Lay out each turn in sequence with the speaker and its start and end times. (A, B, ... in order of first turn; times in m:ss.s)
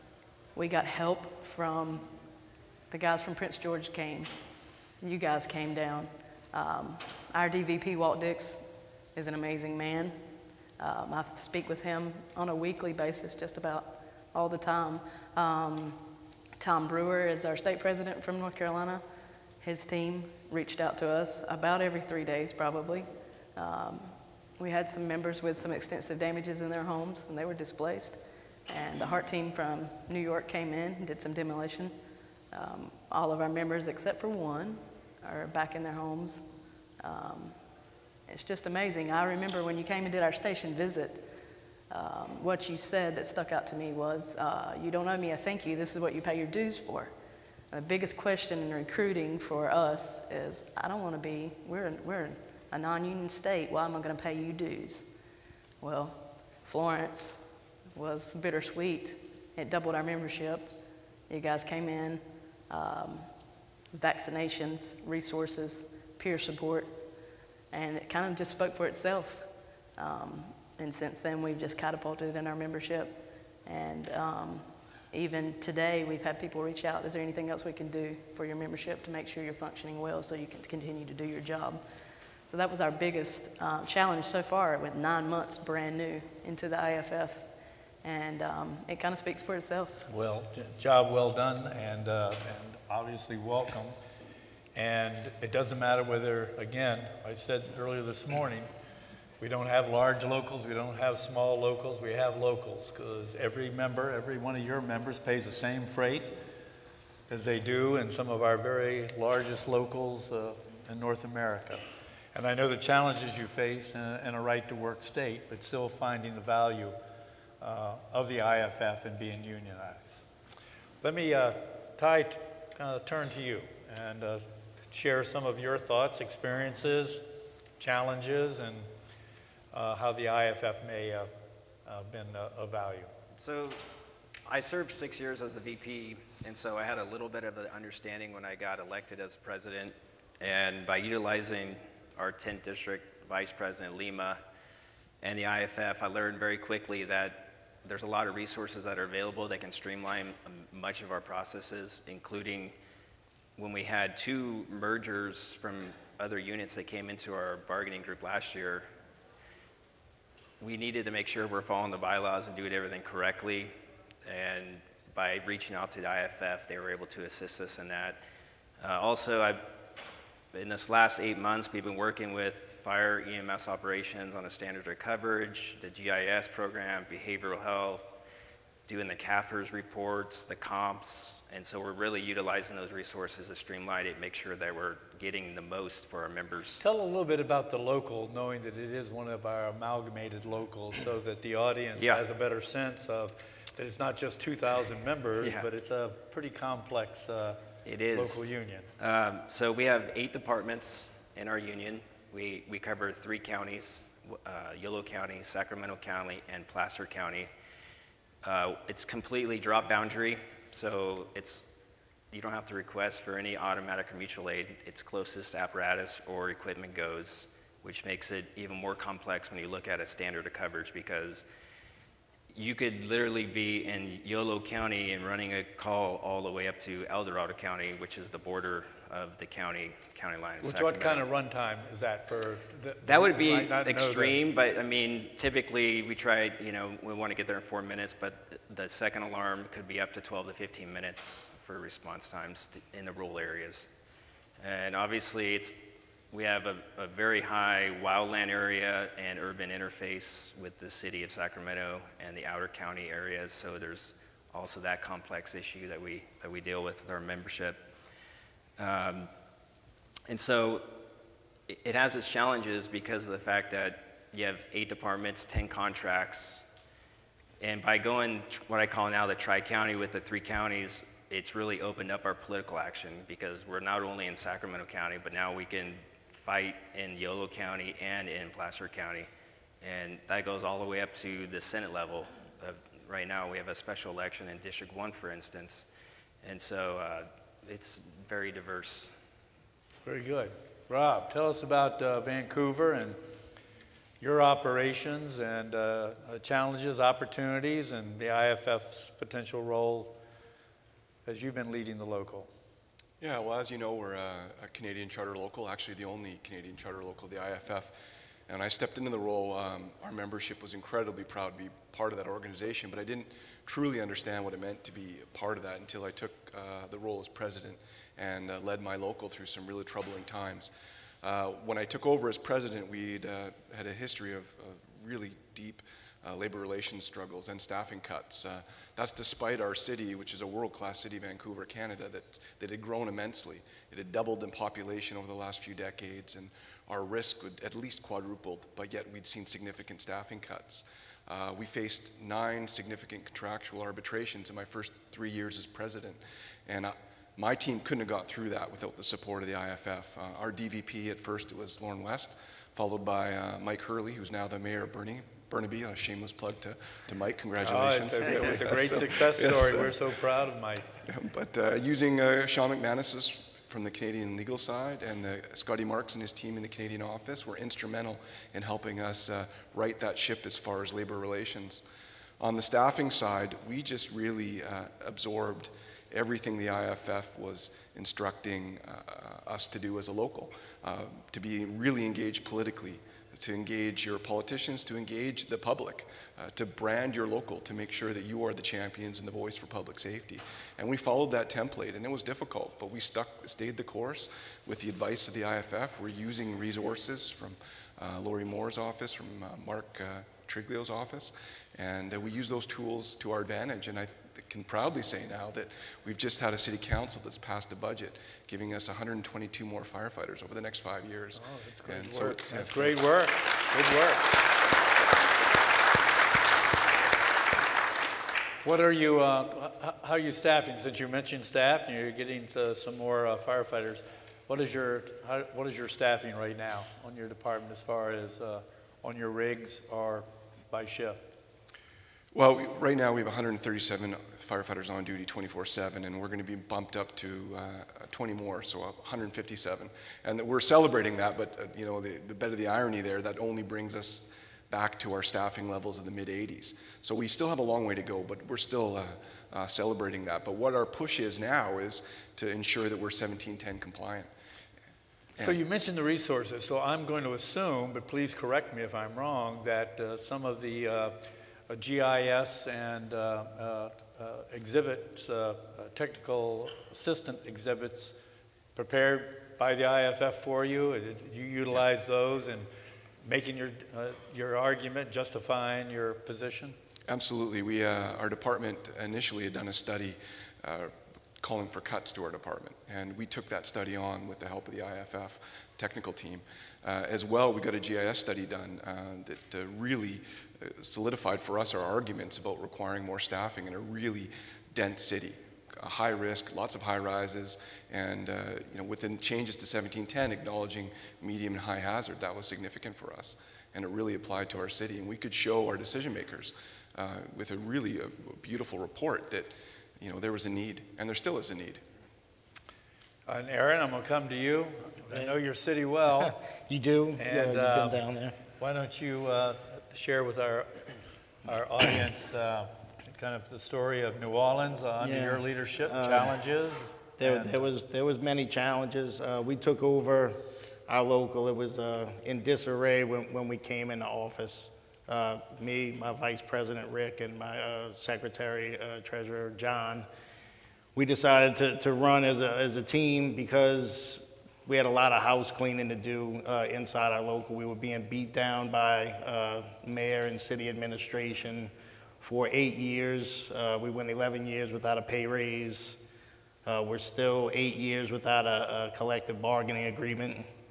0:00.5-0:02.1 A
0:02.9-0:04.3 A
0:05.0-0:10.2 A
0:10.8-0:16.0 A
0:16.6-0:19.0 A
0:19.6-0:31.9 A
0:32.5-0:36.5 A
0:37.0-0:37.6 A
0:38.3-0:41.3 A
0:41.9-0:47.1 A
0:47.7-0:55.1 A
0:55.8-1:00.7 A
1:01.3-1:03.3 A
1:03.9-1:07.0 A
1:07.7-1:21.8 A
1:22.4-1:27.5 A
1:28.0-1:30.0 A
1:30.1-1:34.0 B
1:34.7-1:38.7 B
1:39.4-1:46.3 B
1:47.3-1:51.8 B
1:52.3-1:57.0 B
1:57.6-2:00.2 B
2:01.0-2:07.2 B
2:07.8-2:08.9 B
2:09.7-2:11.3 B
2:11.8-2:13.1 B
2:13.4-2:13.8 C
2:14.4-2:24.4 C
2:25.2-2:32.7 C
2:33.6-2:38.9 C
2:40.6-2:43.7 C
2:44.2-2:48.2 C
2:48.8-2:49.6 C
2:50.5-2:58.2 C
2:58.9-3:06.8 C
3:06.8-3:17.6 B
3:15.4-3:15.6 C
3:17.8-3:27.5 C
3:18.1-3:18.9 B
3:28.4-3:31.7 C
3:32.3-3:41.4 C
3:42.5-3:51.2 C
3:50.6-3:54.4 B
3:53.0-4:03.9 C
4:04.6-4:17.8 C
4:18.8-4:19.3 C
4:20.3-4:20.9 C
4:21.7-4:26.7 C
4:27.6-4:39.3 C
4:39.8-4:45.9 C
4:46.4-4:49.1 C
4:50.0-4:53.2 B
4:54.2-5:00.2 B
5:01.2-5:02.5 B
5:03.2-5:07.9 D
5:08.5-5:20.7 D
5:21.2-5:59.9 D
5:57.6-6:00.9 B
6:01.0-6:11.8 D
6:12.4-6:53.1 D
6:51.3-6:54.3 B
6:58.6-7:11.2 B
7:12.3-7:34.3 D
7:35.4-7:48.1 B
7:48.7-7:52.7 B
7:53.2-7:56.8 B
7:57.1-8:31.8 D
8:33.3-8:36.4 B
8:36.2-8:38.4 E
8:37.2-8:38.0 B
8:38.6-8:40.8 B
8:41.4-8:47.6 B
8:45.0-8:46.3 E
8:47.2-9:00.1 E
9:00.9-9:16.0 E
9:16.6-9:20.5 E